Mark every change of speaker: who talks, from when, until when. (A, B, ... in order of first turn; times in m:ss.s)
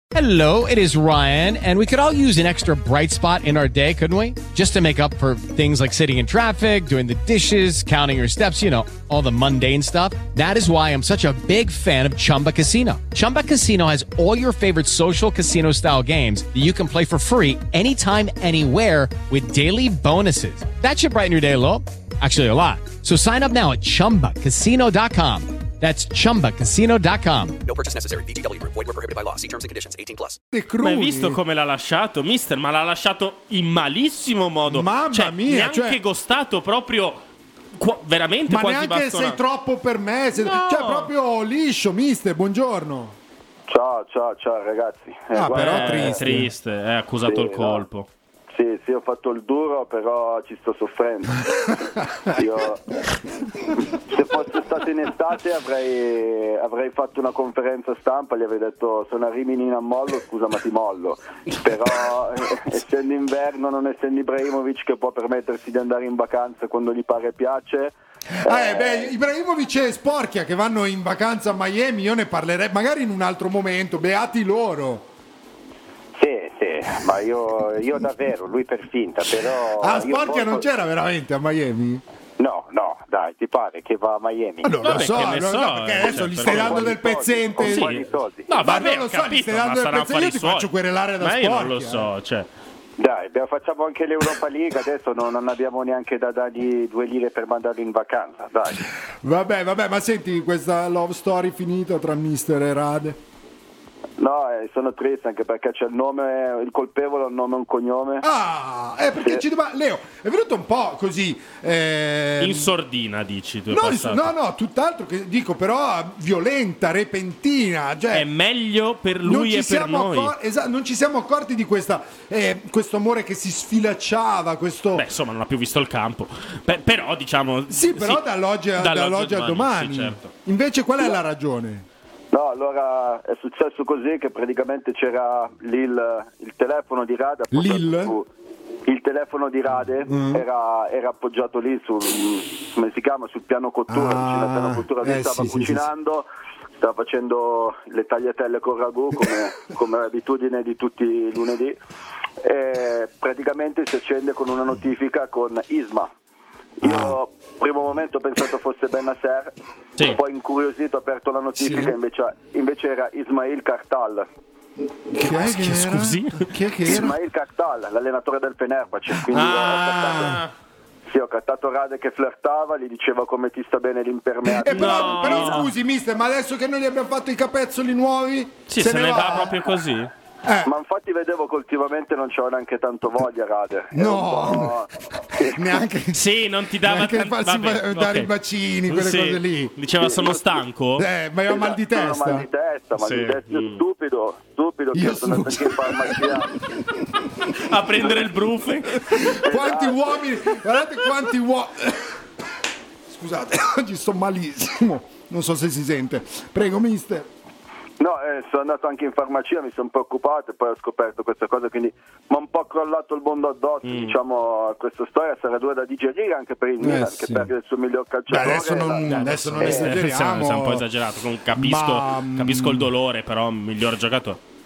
0:00.1-0:27.6 A
0:27.6-0:30.3 B
0:30.5-0:31.4 C
0:30.8-0:37.2 D
0:34.7-0:36.0 C
0:37.8-0:39.4 D
0:38.5-0:43.2 C
0:40.4-0:41.1 D
0:43.7-0:46.2 E
0:45.3-0:46.5 C
0:45.5-0:48.1 D
0:47.2-0:47.8 E
0:48.5-0:51.4 E
0:52.3-0:52.8 E
0:53.9-1:09.1 E
1:08.3-1:15.0 C
1:16.2-1:20.6 E
1:19.8-1:22.0 C
1:22.4-1:25.0 E
1:24.6-1:27.9 C
1:24.8-1:26.9 D
1:26.2-1:28.5 E
1:27.6-1:32.5 D
1:28.6-1:32.1 C
1:33.0-1:38.8 E
1:39.2-1:43.2 C
1:44.2-1:48.2 E
1:48.2-1:52.7 C
1:49.2-1:49.4 E
1:52.4-1:54.3 D
1:53.7-1:58.3 C
1:58.1-2:00.3 D
1:59.2-2:05.1 C
2:04.9-2:08.2 D
2:07.7-2:11.8 C
2:08.8-2:10.3 D
2:12.3-2:18.3 E
2:17.5-2:18.2 C
2:18.8-2:26.3 E
2:20.1-2:20.4 C
2:23.9-2:25.9 C
2:26.8-2:31.8 E
2:32.4-2:36.1 E
2:36.8-2:44.2 E
2:36.8-2:37.2 C
2:41.6-2:41.9 C
2:45.1-2:47.1 C
2:45.2-2:47.0 D
2:46.8-2:50.3 E
2:49.1-2:50.4 C
2:49.3-2:50.5 D
2:51.1-2:55.6 E
2:54.4-2:59.6 C
2:54.7-2:55.7 D
2:58.7-3:00.1 D
3:00.4-3:00.7 C
3:00.6-3:05.8 E
3:03.9-3:06.2 C
3:06.1-3:08.3 D
3:06.8-3:09.7 C
3:08.9-3:11.1 D
3:10.0-3:10.5 E
3:11.0-3:12.4 C
3:11.5-3:16.5 E
3:13.0-3:13.8 D
3:14.9-3:16.5 C
3:17.5-3:19.4 D
3:19.1-3:22.2 C
3:19.4-3:20.4 E
3:23.1-3:27.3 C
3:28.0-3:40.0 E
3:33.8-3:34.1 D
3:36.8-3:37.5 C
3:38.3-3:40.8 C
3:39.0-3:44.4 D
3:41.5-3:42.9 C